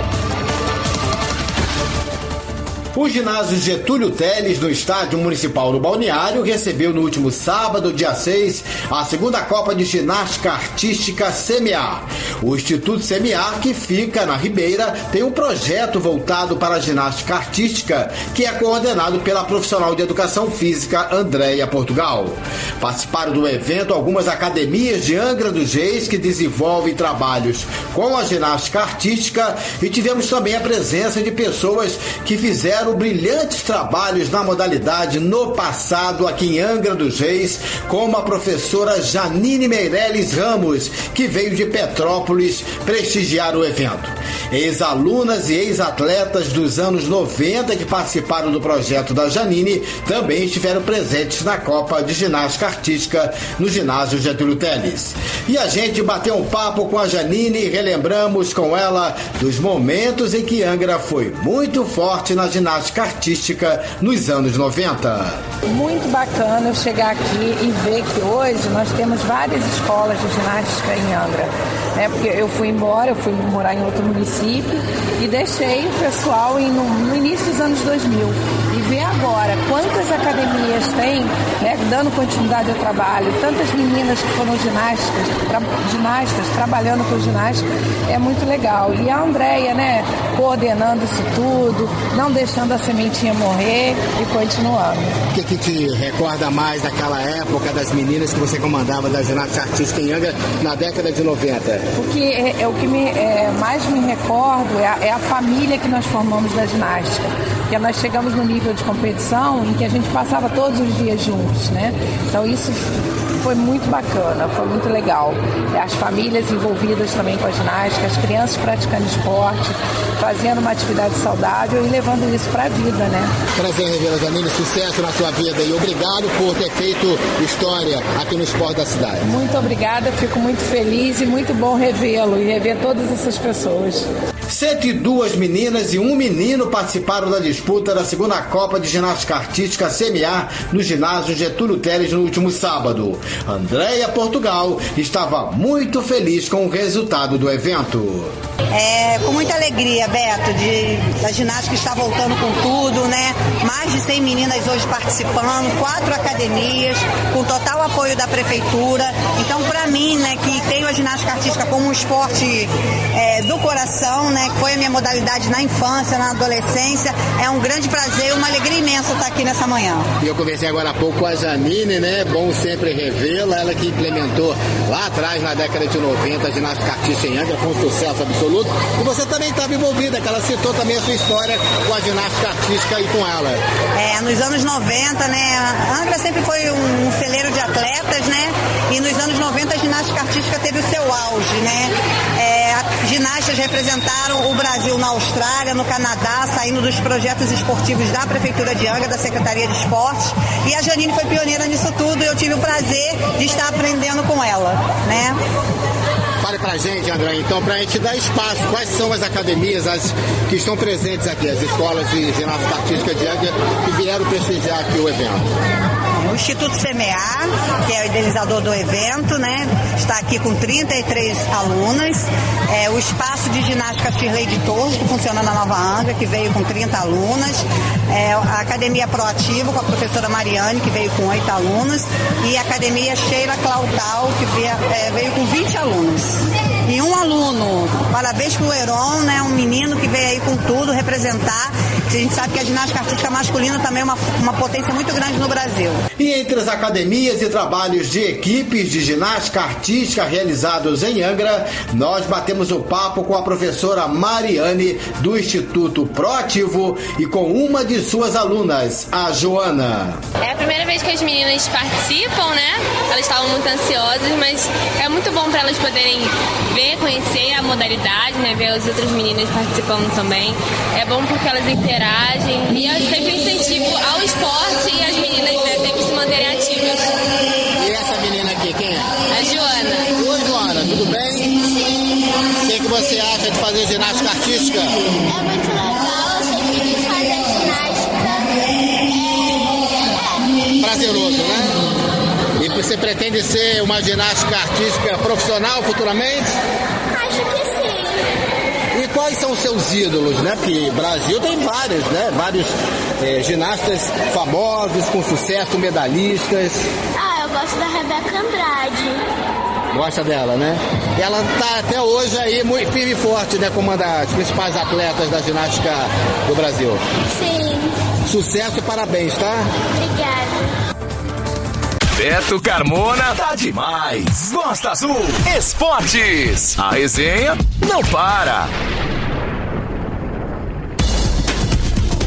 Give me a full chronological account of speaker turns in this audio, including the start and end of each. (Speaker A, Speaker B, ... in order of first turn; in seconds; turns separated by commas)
Speaker A: 2.9-65.4, Speaker B: 65.7-95.2, Speaker A: 95.3-101.8, Speaker B: 102.0-123.3, Speaker A: 123.6-129.3, Speaker B: 129.2-134.1, Speaker A: 134.5-148.3, Speaker C: 148.7-170.1, Speaker A: 170.2-183.6, Speaker C: 183.9-205.4, Speaker A: 206.4-215.6, Speaker C: 216.2-246.0, Speaker A: 246.2-260.2, Speaker D: 260.4-277.2, Speaker A: 277.8-279.1, Speaker D: 279.3-280.1, Speaker A: 280.2-281.7, Speaker A: 282.6-285.0, Speaker E: 285.3-290.5, Speaker A: 290.8-291.8, Speaker A: 292.6-296.6, Speaker E: 297.1-298.2, Speaker A: 298.9-306.9, Speaker E: 307.1-309.2, Speaker A: 309.9-317.0, Speaker E: 317.3-318.0, Speaker A: 318.3-319.7, Speaker E: 320.0-320.7, Speaker F: 322.2-328.7